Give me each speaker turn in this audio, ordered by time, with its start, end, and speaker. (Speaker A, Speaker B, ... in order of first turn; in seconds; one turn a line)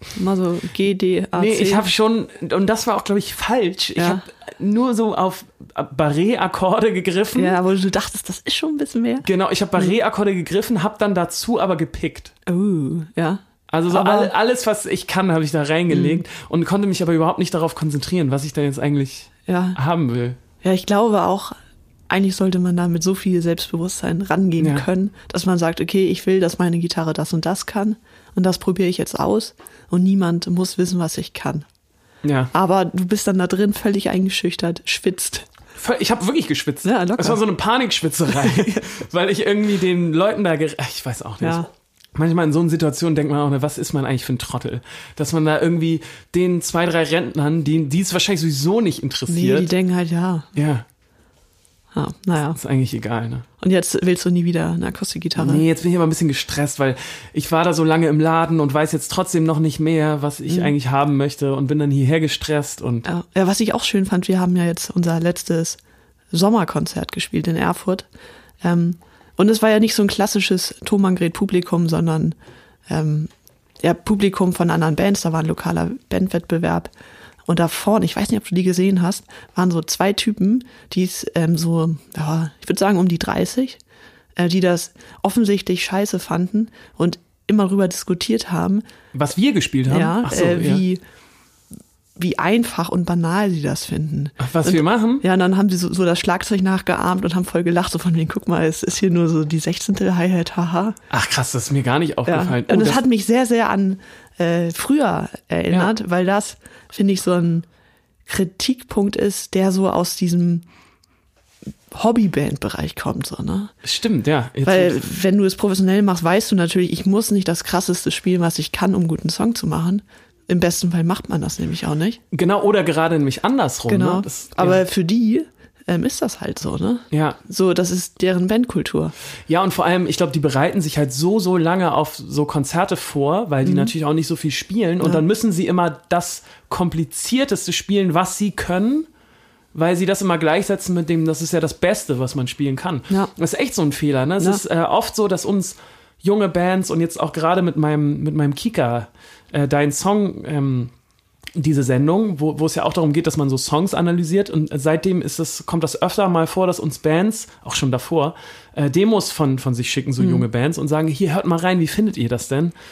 Speaker A: 0.1-1.9
Speaker B: 1.4-7.6
Speaker A: 4.0-4.2
Speaker A: 7.3-10.0
Speaker B: 9.2-12.3
Speaker A: 12.5-14.3
Speaker B: 13.7-20.4
Speaker A: 15.9-16.2
Speaker A: 19.5-19.8
Speaker A: 20.6-21.6
Speaker A: 22.1-31.7
Speaker B: 24.6-24.9
Speaker B: 32.2-32.5
Speaker A: 32.5-35.5
Speaker B: 35.8-41.6
Speaker A: 36.8-37.4
Speaker A: 38.4-38.8
Speaker A: 41.4-41.7
Speaker B: 42.1-49.7
Speaker A: 49.3-50.5
Speaker B: 50.5-50.9
Speaker A: 51.9-52.6
Speaker B: 52.6-53.5
Speaker A: 53.6-55.6
Speaker B: 55.4-63.1
Speaker A: 60.5-60.7
Speaker A: 63.1-65.8
Speaker A: 66.3-68.1
Speaker A: 68.6-72.4
Speaker A: 72.9-73.3
Speaker A: 73.8-76.9
Speaker A: 77.5-83.8
Speaker A: 84.4-88.8
Speaker B: 89.1-90.8
Speaker A: 89.9-91.0
Speaker A: 92.2-101.0
Speaker B: 94.4-95.2
Speaker B: 101.1-103.0
Speaker A: 102.3-107.7
Speaker A: 108.3-110.7
Speaker A: 111.9-113.7
Speaker B: 113.8-115.0
Speaker A: 114.6-122.2
Speaker B: 122.3-124.8
Speaker A: 123.9-129.1
Speaker B: 127.1-127.4
Speaker B: 129.5-139.1
Speaker A: 133.6-133.9
Speaker B: 139.7-150.9
Speaker B: 151.6-162.7
Speaker A: 160.2-160.5